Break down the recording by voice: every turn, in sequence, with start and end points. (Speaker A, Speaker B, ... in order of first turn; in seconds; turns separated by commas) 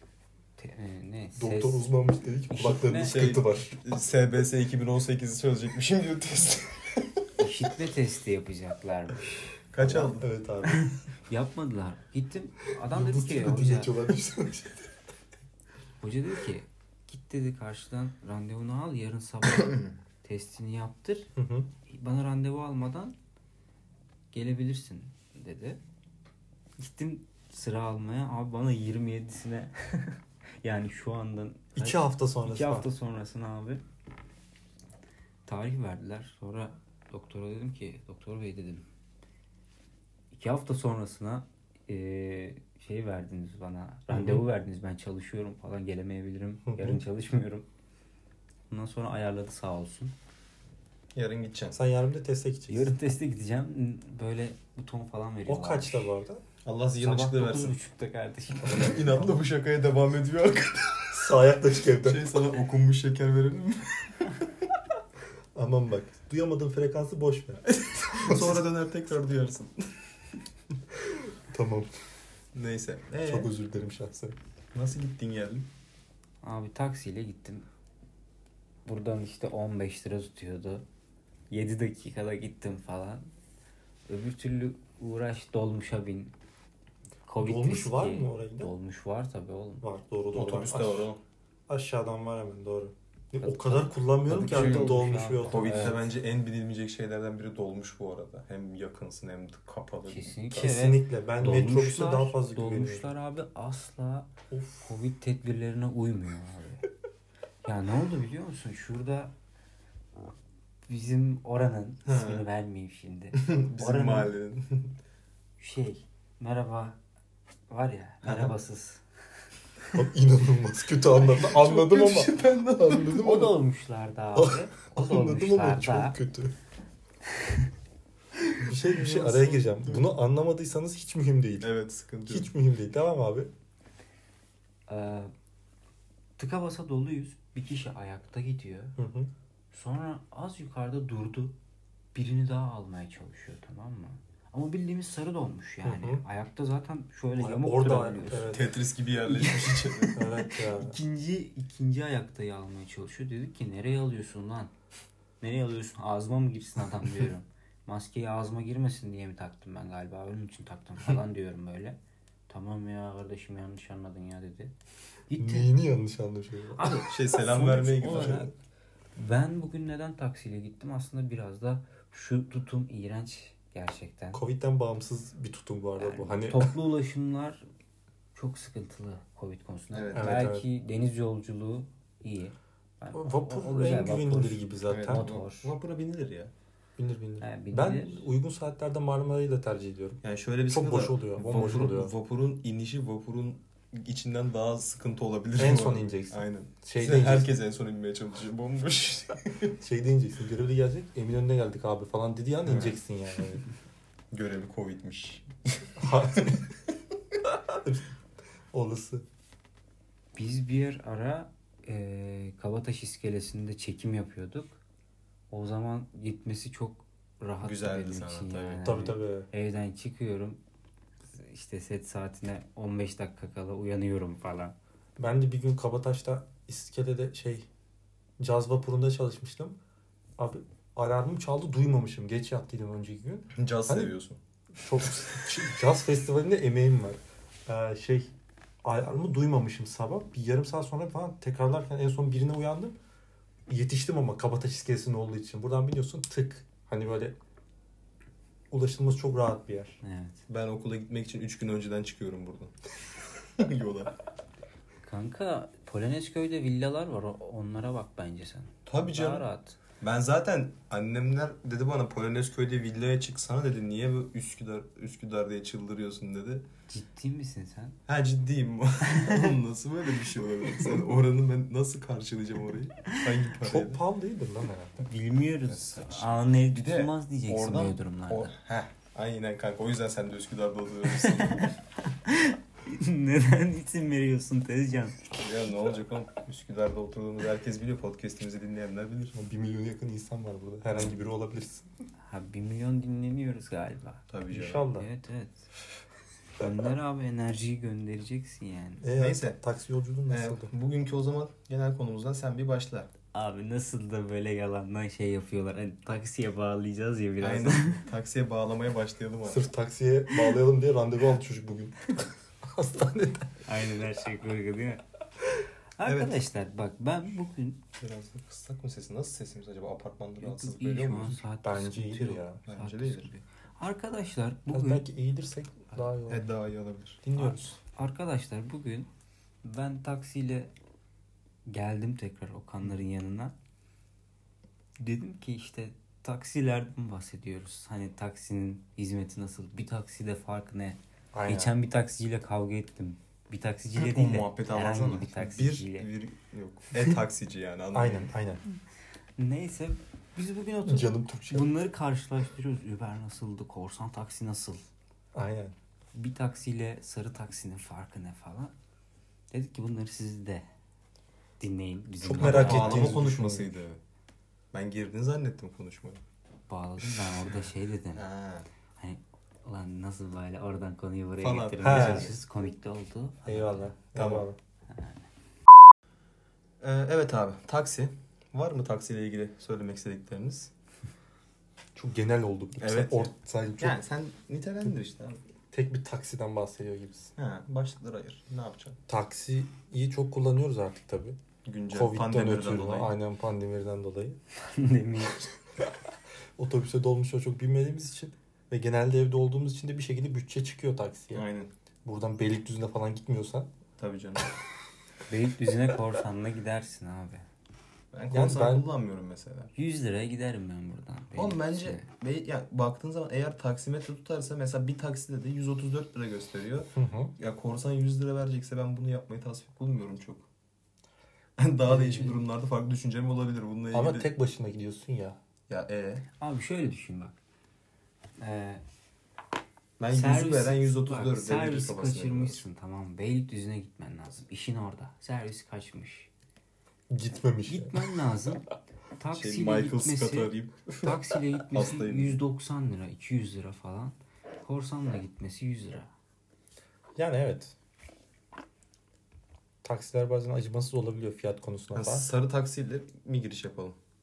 Speaker A: 0.6-1.9, Speaker B: 1.4-3.8, Speaker A: 2.5-3.2, Speaker C: 3.0-7.4, Speaker A: 7.4-10.1, Speaker C: 9.7-10.3, Speaker B: 9.9-10.9, Speaker A: 10.6-14.0, Speaker B: 12.9-14.9, Speaker A: 16.0-21.3, Speaker C: 19.5-19.9, Speaker B: 21.4-21.7, Speaker A: 21.9-23.1, Speaker A: 24.3-25.8, Speaker A: 26.8-33.8, Speaker B: 31.8-32.9, Speaker A: 35.5-38.9, Speaker A: 40.3-47.7, Speaker B: 44.1-44.4, Speaker B: 46.6-47.0, Speaker A: 48.7-50.1, Speaker C: 51.1-51.8, Speaker B: 51.7-52.9, Speaker A: 52.7-56.1, Speaker B: 55.5-56.4, Speaker C: 56.6-57.8, Speaker A: 57.0-59.0, Speaker B: 58.6-59.4, Speaker C: 58.6-61.3, Speaker B: 61.1-62.2, Speaker C: 62.0-64.5, Speaker B: 65.5-67.6, Speaker C: 67.7-69.9, Speaker B: 68.2-68.7, Speaker B: 71.1-71.9, Speaker C: 72.5-73.5, Speaker B: 73.2-74.3, Speaker C: 74.7-75.7, Speaker A: 76.4-77.7, Speaker A: 78.8-80.8, Speaker A: 81.5-83.2, Speaker A: 84.1-86.3, Speaker A: 87.2-89.8, Speaker B: 87.4-88.7, Speaker B: 89.8-91.1, Speaker C: 90.3-91.2, Speaker B: 91.7-96.0, Speaker A: 93.4-96.0, Speaker C: 94.5-100.8, Speaker A: 100.1-104.3, Speaker B: 100.5-103.1, Speaker B: 104.5-104.9, Speaker A: 104.8-106.8, Speaker A: 107.6-109.3, Speaker A: 110.9-114.3, Speaker C: 112.0-112.5, Speaker C: 113.3-114.9, Speaker A: 115.6-117.0, Speaker A: 117.7-119.0, Speaker C: 118.2-118.5, Speaker B: 119.9-123.4, Speaker C: 121.2-123.5, Speaker A: 123.0-126.2, Speaker B: 124.3-126.5, Speaker C: 128.6-130.1, Speaker B: 128.6-131.7, Speaker C: 131.6-132.5, Speaker B: 132.3-133.5, Speaker A: 134.9-135.3, Speaker A: 136.4-139.0, Speaker B: 139.0-139.3, Speaker A: 139.7-141.5, Speaker A: 142.1-148.6, Speaker B: 145.8-146.2, Speaker B: 147.4-148.7, Speaker C: 148.5-150.2, Speaker A: 149.2-154.7, Speaker B: 150.2-151.0, Speaker A: 155.4-162.0, Speaker A: 162.5-164.7, Speaker A: 165.3-165.7, Speaker B: 165.3-167.0, Speaker A: 166.7-168.5, Speaker C: 167.1-168.5, Speaker B: 168.1-168.4, Speaker A: 169.2-174.4, Speaker B: 174.3-176.8, Speaker A: 176.0-177.6, Speaker A: 178.3-185.7, Speaker C: 179.9-180.3, Speaker B: 180.1-180.6, Speaker B: 183.1-185.3, Speaker C: 184.9-186.5, Speaker B: 187.0-192.1, Speaker A: 187.4-188.3, Speaker C: 190.2-199.8, Speaker B: 195.6-197.5, Speaker B: 199.8-203.6, Speaker C: 202.6-203.0, Speaker C: 204.3-206.6, Speaker B: 206.0-206.7, Speaker B: 207.7-208.1, Speaker B: 208.7-209.2, Speaker A: 210.3-214.8, Speaker A: 215.5-220.6, Speaker C: 217.6-218.9, Speaker B: 218.8-219.5, Speaker A: 221.3-224.7, Speaker B: 225.2-227.7, Speaker B: 228.4-229.8, Speaker B: 230.4-234.1, Speaker C: 233.5-234.4, Speaker B: 234.8-238.3, Speaker B: 238.8-243.0, Speaker B: 243.7-247.3, Speaker B: 248.7-250.0, Speaker A: 250.0-250.4, Speaker C: 250.5-252.7, Speaker C: 253.6-254.1, Speaker A: 255.0-259.8, Speaker C: 258.9-259.4, Speaker C: 260.0-266.6, Speaker A: 266.9-268.0, Speaker C: 268.1-274.0, Speaker A: 269.1-269.5, Speaker B: 273.6-275.0, Speaker A: 275.0-278.5, Speaker C: 275.6-281.7, Speaker A: 281.2-285.3, Speaker C: 285.3-289.4, Speaker B: 289.3-291.9, Speaker A: 292.2-295.7, Speaker C: 294.3-294.9, Speaker B: 294.5-295.1, Speaker A: 296.6-299.1, Speaker B: 299.0-300.7, Speaker C: 299.1-299.6, Speaker C: 300.3-303.1, Speaker A: 303.3-308.0, Speaker C: 307.4-309.6, Speaker B: 309.4-313.5, Speaker A: 313.6-315.0, Speaker A: 316.0-317.8, Speaker C: 316.1-316.4, Speaker C: 318.0-321.4, Speaker A: 320.4-325.0, Speaker B: 321.6-322.6, Speaker C: 322.7-323.3, Speaker B: 324.7-326.5, Speaker C: 326.3-327.7, Speaker B: 327.2-327.7, Speaker A: 327.9-329.1, Speaker A: 329.6-330.7, Speaker A: 331.6-333.5, Speaker A: 335.0-346.1, Speaker B: 341.3-341.8, Speaker C: 344.0-348.3, Speaker B: 347.9-348.6, Speaker A: 349.4-354.8, Speaker B: 350.9-351.7, Speaker B: 355.3-355.7, Speaker A: 356.1-358.7, Speaker A: 359.5-360.6, Speaker A: 361.6-363.4, Speaker B: 362.2-363.7, Speaker C: 362.3-364.0, Speaker C: 364.7-366.2, Speaker A: 366.7-368.2, Speaker C: 368.1-368.7, Speaker A: 369.0-373.9, Speaker C: 371.4-372.4, Speaker B: 371.8-372.3, Speaker B: 373.4-374.6, Speaker C: 374.1-374.4, Speaker A: 374.9-375.2, Speaker C: 376.8-380.7, Speaker B: 381.9-384.0, Speaker C: 382.8-385.4, Speaker B: 385.7-387.3, Speaker C: 387.4-389.0, Speaker B: 389.1-391.4, Speaker C: 391.6-393.1, Speaker B: 391.9-394.4, Speaker A: 394.6-395.5, Speaker B: 396.6-401.4, Speaker C: 401.3-401.7, Speaker B: 402.0-403.7, Speaker C: 404.0-404.5, Speaker A: 405.3-407.4, Speaker C: 408.1-409.7, Speaker B: 408.3-408.9, Speaker A: 409.8-412.1, Speaker C: 411.3-420.5, Speaker B: 416.9-417.3, Speaker C: 421.6-424.3, Speaker B: 421.9-422.4, Speaker B: 423.9-425.4, Speaker C: 425.7-426.3, Speaker A: 426.4-427.4, Speaker A: 428.4-428.8, Speaker C: 430.0-432.6, Speaker A: 430.1-436.3, Speaker B: 437.1-438.1, Speaker A: 437.7-446.1, Speaker C: 439.3-442.4, Speaker B: 447.1-447.7, Speaker B: 449.8-452.3, Speaker C: 451.9-453.9